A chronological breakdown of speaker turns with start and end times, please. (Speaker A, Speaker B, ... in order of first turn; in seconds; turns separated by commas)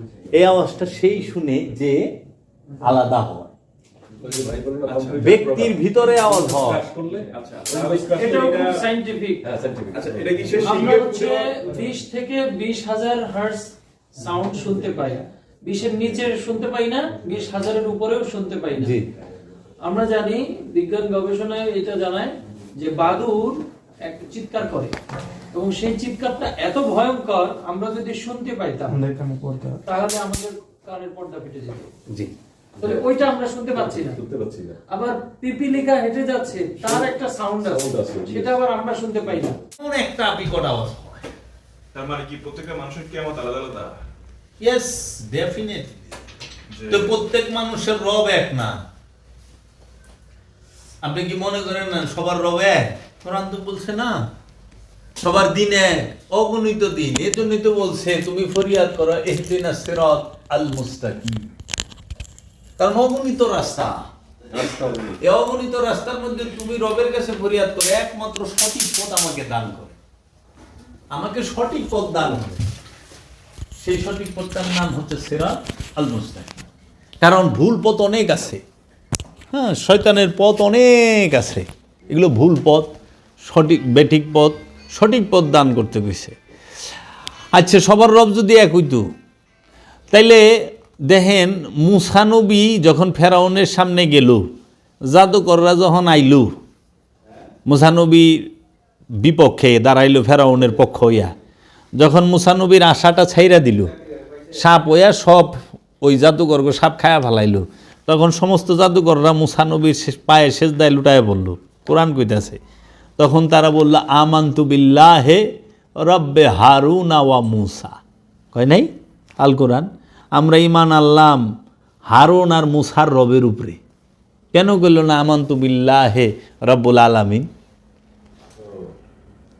Speaker A: 0.3-2.0, Speaker A: 2.8-3.5, Speaker B: 4.2-8.6, Speaker A: 4.9-6.8, Speaker C: 7.4-8.8, Speaker D: 8.1-9.4, Speaker B: 9.4-10.8, Speaker C: 9.9-11.5, Speaker D: 10.6-19.0, Speaker A: 18.7-19.1, Speaker D: 19.8-24.9, Speaker D: 25.5-31.9, Speaker D: 32.8-34.2, Speaker B: 32.8-34.8, Speaker D: 34.9-39.6, Speaker B: 36.8-38.5, Speaker A: 39.8-41.2, Speaker C: 41.9-44.0, Speaker A: 44.6-46.2, Speaker C: 46.7-47.1, Speaker A: 46.9-48.8, Speaker A: 51.0-54.2, Speaker A: 55.2-61.4, Speaker A: 62.8-64.0, Speaker B: 64.5-65.2, Speaker A: 65.2-70.0, Speaker A: 71.1-72.6, Speaker A: 73.8-76.5, Speaker A: 77.2-78.6, Speaker A: 79.5-82.9, Speaker A: 83.5-86.3, Speaker A: 87.5-89.0, Speaker A: 90.1-90.4, Speaker A: 91.1-94.4, Speaker A: 95.1-96.5, Speaker A: 97.7-98.4, Speaker A: 99.2-101.3, Speaker A: 102.0-103.9, Speaker A: 104.5-112.6, Speaker A: 113.2-115.4, Speaker A: 116.0-118.0, Speaker A: 118.5-118.9, Speaker A: 119.4-121.4, Speaker A: 122.1-123.8, Speaker A: 124.5-127.5